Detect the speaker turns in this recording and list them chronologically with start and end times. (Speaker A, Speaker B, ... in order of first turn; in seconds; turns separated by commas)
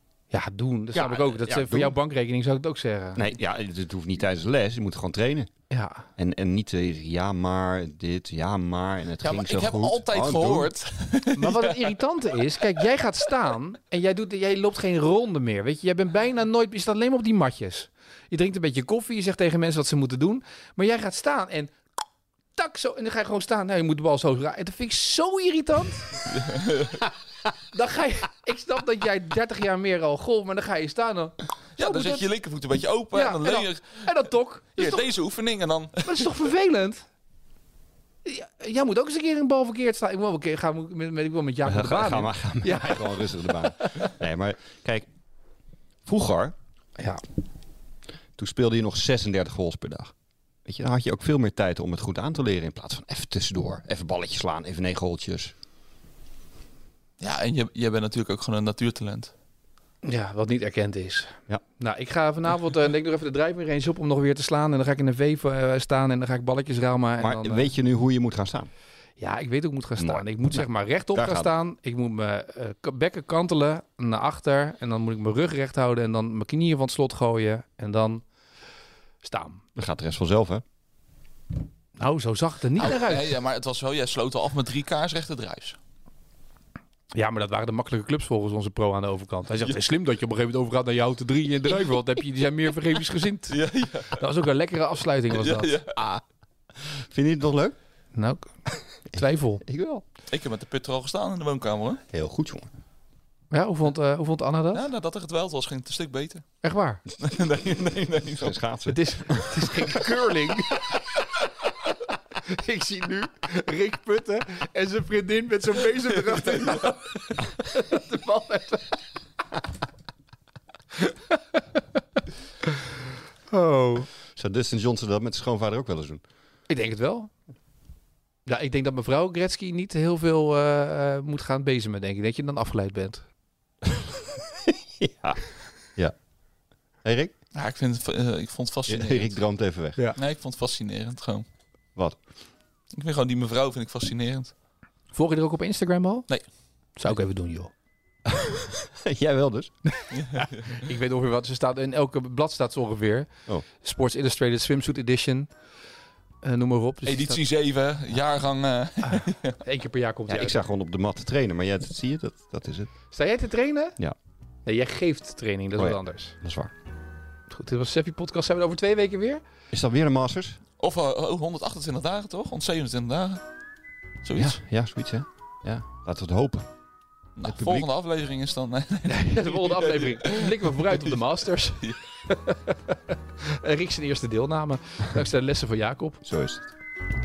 Speaker A: 0.3-3.3, Speaker B: 0.9-1.9, Speaker B: 3.1-5.5, Speaker A: 5.7-6.0, Speaker B: 6.2-10.7, Speaker C: 9.2-11.9, Speaker A: 11.3-21.7, Speaker A: 22.5-26.2, Speaker C: 26.3-27.0, Speaker A: 27.7-32.2, Speaker C: 31.8-34.1, Speaker A: 33.1-35.1, Speaker C: 34.8-36.3, Speaker A: 36.0-37.0, Speaker A: 38.2-44.1, Speaker B: 41.6-45.1, Speaker B: 46.0-46.5, Speaker B: 48.4-50.1, Speaker B: 50.6-55.5, Speaker C: 57.2-59.3, Speaker A: 60.0-67.7, Speaker B: 67.2-68.7, Speaker A: 69.2-78.2, Speaker B: 70.0-70.6, Speaker B: 71.1-71.5, Speaker A: 79.2-79.6, Speaker B: 79.8-80.6, Speaker A: 82.0-83.3, Speaker C: 82.8-85.8, Speaker A: 87.1-95.8, Speaker C: 93.5-94.2, Speaker C: 95.3-96.0, Speaker B: 96.0-96.2, Speaker B: 96.8-97.7, Speaker A: 98.1-99.6, Speaker B: 99.2-100.0, Speaker C: 100.3-102.0, Speaker B: 102.1-102.7, Speaker A: 103.5-104.8, Speaker C: 104.7-106.4, Speaker A: 106.6-107.0, Speaker C: 107.2-108.5, Speaker B: 108.4-110.2, Speaker A: 108.9-111.0, Speaker A: 112.3-119.0, Speaker C: 116.6-116.9, Speaker A: 121.0-121.8, Speaker A: 123.5-124.1, Speaker B: 124.3-126.2, Speaker A: 126.7-127.3, Speaker A: 128.4-133.2, Speaker B: 133.8-135.4, Speaker B: 137.0-137.3, Speaker C: 137.5-139.4, Speaker B: 138.9-140.0, Speaker C: 140.2-141.4, Speaker C: 142.9-144.5, Speaker A: 145.1-146.4, Speaker A: 146.9-147.7, Speaker B: 148.2-149.7, Speaker C: 150.1-150.7, Speaker A: 150.7-155.5, Speaker A: 156.4-157.4, Speaker C: 157.0-159.6, Speaker A: 159.6-160.6, Speaker B: 160.3-162.9, Speaker A: 163.1-164.0, Speaker A: 164.7-166.3, Speaker B: 165.8-166.7, Speaker A: 167.5-169.4, Speaker B: 169.7-170.6, Speaker C: 170.8-173.4, Speaker C: 174.2-174.6, Speaker B: 174.3-176.7, Speaker C: 177.4-180.7, Speaker B: 177.4-177.9, Speaker A: 179.1-186.2, Speaker B: 186.2-186.6